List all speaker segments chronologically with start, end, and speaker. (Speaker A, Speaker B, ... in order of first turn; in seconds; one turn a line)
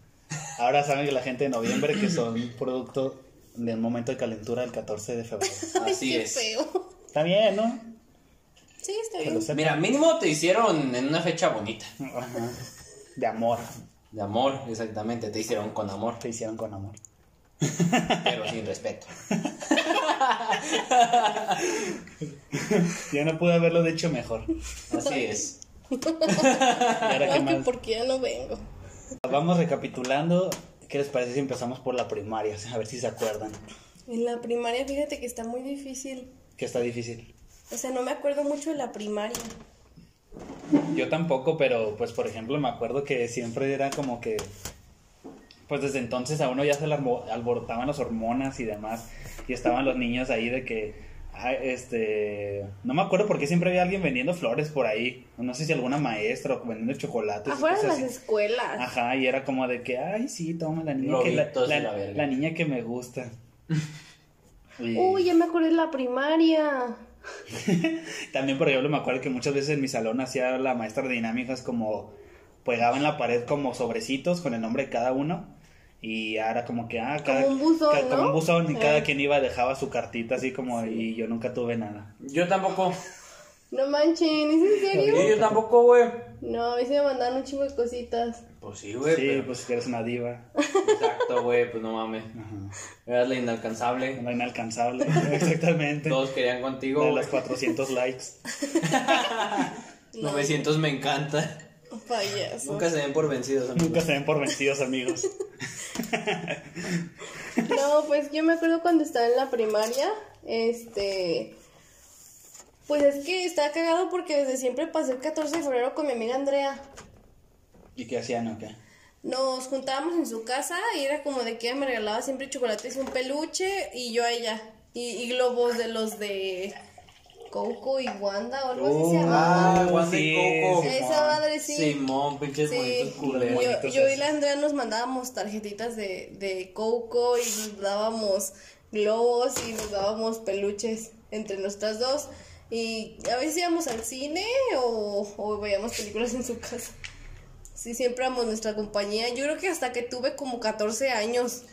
Speaker A: 0.6-5.7
Speaker B: 5.5-6.8
Speaker C: 5.7-6.5
Speaker A: 7.1-7.9
Speaker B: 8.8-9.5
Speaker A: 9.2-9.8
Speaker C: 9.5-11.9
Speaker A: 12.0-12.6
Speaker A: 13.2-13.7
Speaker C: 14.1-16.2
Speaker A: 16.2-17.0
Speaker A: 17.6-18.4
Speaker C: 18.2-19.1
Speaker A: 19.3-19.7
Speaker C: 19.7-21.8
Speaker A: 22.5-24.5
Speaker C: 24.9-25.6
Speaker B: 24.9-28.6
Speaker C: 26.3-27.2
Speaker A: 26.9-27.7
Speaker A: 29.2-33.6
Speaker B: 34.1-36.3
Speaker A: 36.6-37.3
Speaker B: 37.7-39.5
Speaker A: 40.9-44.5
Speaker A: 45.7-58.1
Speaker B: 57.5-58.8
Speaker A: 58.8-63.3
Speaker C: 61.0-62.3
Speaker A: 64.8-65.3
Speaker B: 64.9-67.0
Speaker A: 67.5-82.1
Speaker B: 77.2-79.1
Speaker C: 82.2-83.0
Speaker B: 83.7-85.3
Speaker A: 84.9-85.6
Speaker C: 85.1-86.3
Speaker B: 86.4-88.4
Speaker C: 88.6-89.5
Speaker A: 89.1-90.5
Speaker C: 90.8-92.3
Speaker A: 92.3-92.7
Speaker C: 93.0-94.2
Speaker A: 94.2-96.2
Speaker C: 95.1-95.5
Speaker C: 96.0-97.4
Speaker A: 96.9-98.4
Speaker B: 98.6-99.1
Speaker C: 98.8-101.6
Speaker B: 100.1-100.7
Speaker B: 101.9-102.9
Speaker C: 102.6-104.1
Speaker A: 103.8-105.3
Speaker A: 105.9-107.1
Speaker B: 107.6-111.5
Speaker B: 112.9-116.8
Speaker A: 118.0-118.8
Speaker B: 119.2-126.8
Speaker B: 127.5-129.9
Speaker A: 128.7-131.4
Speaker C: 129.2-130.9
Speaker B: 130.8-132.0
Speaker C: 131.6-133.7
Speaker B: 132.7-146.9
Speaker A: 133.2-134.2
Speaker B: 147.7-151.6